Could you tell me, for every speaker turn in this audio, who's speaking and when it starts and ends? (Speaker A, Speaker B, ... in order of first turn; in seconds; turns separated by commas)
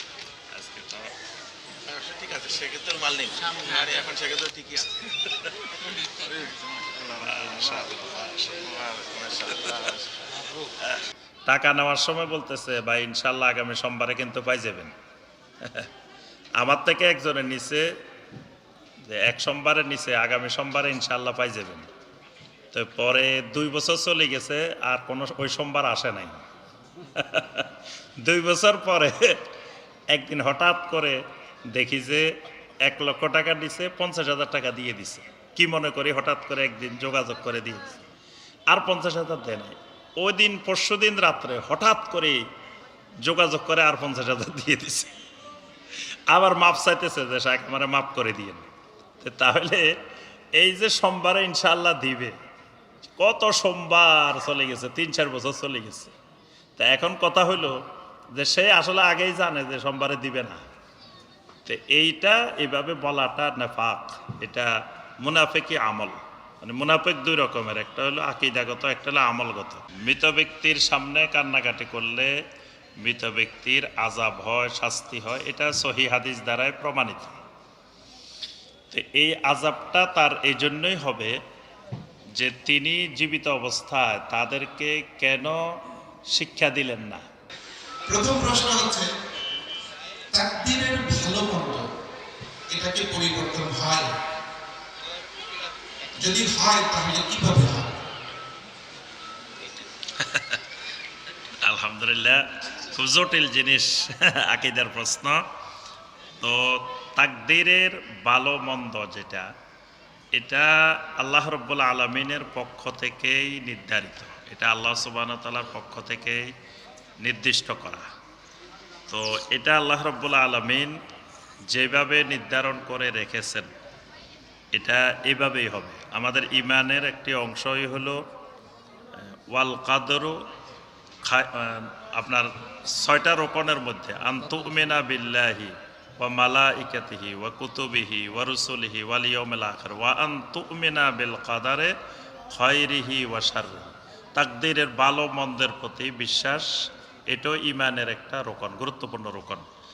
Speaker A: 0.5-1.1, Speaker B: 1.8-5.0, Speaker B: 5.9-7.0, Speaker A: 7.2-9.9, Speaker B: 8.8-10.2, Speaker A: 11.5-14.9, Speaker A: 15.6-15.9, Speaker A: 16.6-17.8, Speaker A: 19.1-21.9, Speaker A: 22.7-26.4, Speaker A: 27.1-29.4, Speaker A: 30.1-31.2, Speaker A: 31.7-32.2, Speaker A: 32.8-38.0, Speaker A: 38.7-42.4, Speaker A: 43.2-45.1, Speaker A: 46.3-48.6, Speaker A: 49.2-49.8, Speaker A: 50.6-52.3, Speaker A: 53.1-56.1, Speaker A: 56.8-57.7, Speaker A: 58.3-60.6, Speaker A: 61.6-64.7, Speaker A: 65.2-72.3, Speaker A: 73.0-77.3, Speaker A: 78.9-81.3, Speaker A: 82.3-85.6, Speaker A: 86.3-87.2, Speaker C: 88.1-89.1, Speaker C: 90.3-91.9, Speaker C: 92.7-94.1, Speaker C: 96.2-98.0, Speaker A: 100.2-100.6, Speaker A: 101.6-105.4, Speaker A: 106.4-109.5, Speaker A: 110.3-116.4, Speaker A: 117.2-118.0, Speaker A: 119.1-120.9, Speaker A: 121.7-123.7, Speaker A: 124.7-128.2, Speaker A: 129.5-130.3, Speaker A: 131.2-141.9, Speaker A: 142.5-146.7, Speaker A: 147.3-149.7